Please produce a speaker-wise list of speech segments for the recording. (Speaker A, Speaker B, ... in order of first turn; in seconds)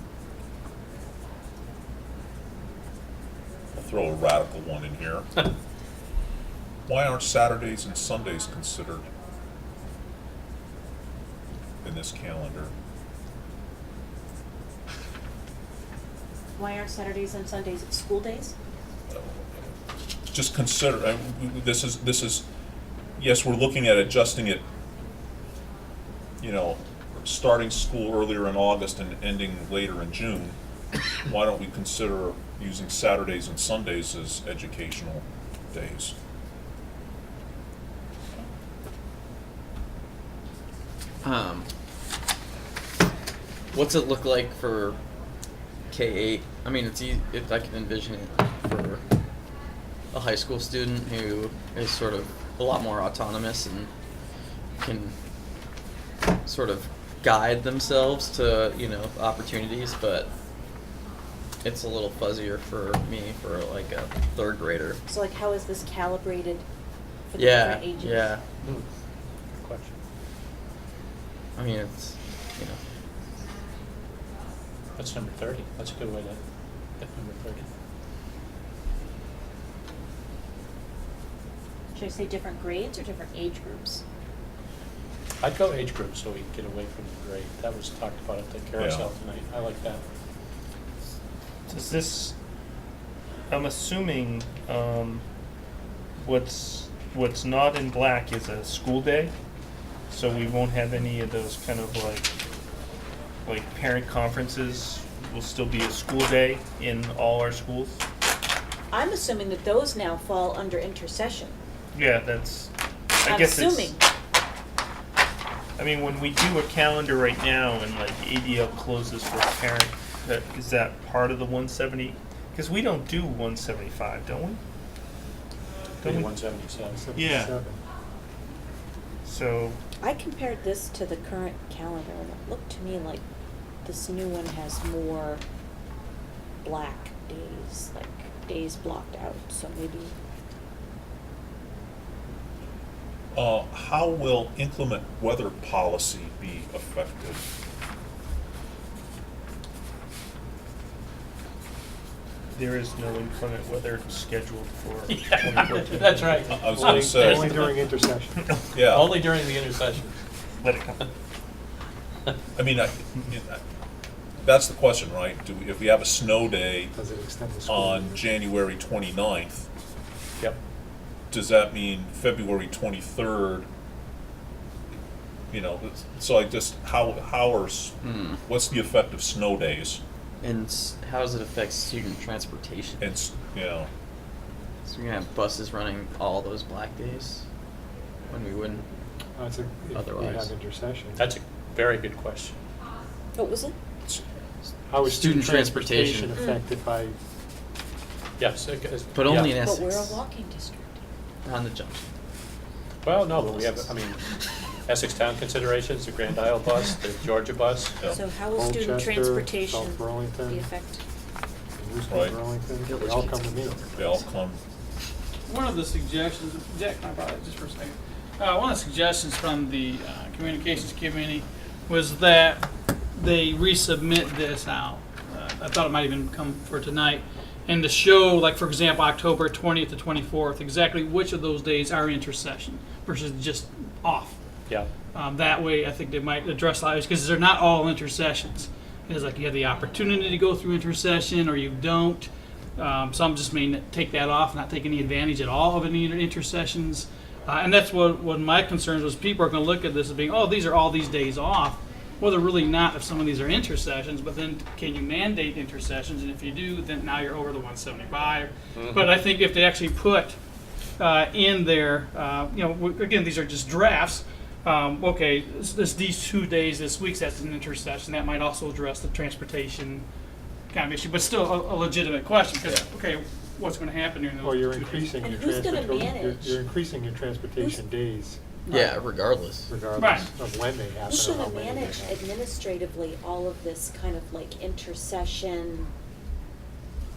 Speaker A: 3.8-5.3, 6.9-9.1, 11.8-12.7, 19.1-19.7, 20.3-22.5, 23.2-24.6, 26.4-30.6, 31.2-36.1, 88.8-89.1, 143.3-147.4, 156.5-157.6, 158.7-159.2, 162.6-163.6, 164.4-166.9, 167.7-169.7, 171.3-173.7, 175.5-180.0, 183.0-183.9, 212.1-212.4, 213.9-214.6
Speaker B: 16.6-18.5, 65.1-66.6, 67.3-68.3, 81.9-84.0, 108.9-111.6, 113.2-114.0, 130.0-133.2, 133.8-135.4, 136.6-140.1, 193.3-193.8, 196.3-196.6, 199.5-201.0, 208.1-211.0, 275.2-276.6, 281.1-285.9
Speaker C: 41.2-41.7, 43.7-45.0, 45.9-49.0, 50.1-53.9, 54.8-55.1, 56.5-60.3, 61.6-65.0, 67.4-68.4, 71.6-72.8, 178.1-178.4, 180.4-183.0, 184.9-187.4, 188.3-188.8, 189.9-190.5, 195.1-196.3, 199.1-200.2, 201.4-202.0, 212.8-214.2, 278.7-279.7
Speaker D: 69.6-69.9, 75.0-76.4, 77.0-77.7, 85.4-90.0, 126.0-127.0, 155.1-157.8, 158.8-160.1, 191.2-192.5, 198.4-199.5, 203.0-204.2, 204.9-208.0, 258.8-259.1
Speaker E: 91.7-92.3, 93.5-95.2, 96.2-99.3, 100.1-102.3, 103.5-108.0, 111.9-113.9, 115.8-124.6, 126.0-126.3, 127.2-127.5, 129.2-129.8, 152.5-156.9, 160.6-161.1
Speaker F: 126.8-127.8, 156.7-158.5, 166.9-168.2, 189.4-191.2, 194.9-197.2, 208.5-210.7, 211.8-213.8, 274.4-278.4, 279.7-282.2
Speaker G: 215.5-234.4, 235.1-260.4, 261.0-270.0, 270.7-275.2, 278.7-279.0, 279.9-280.3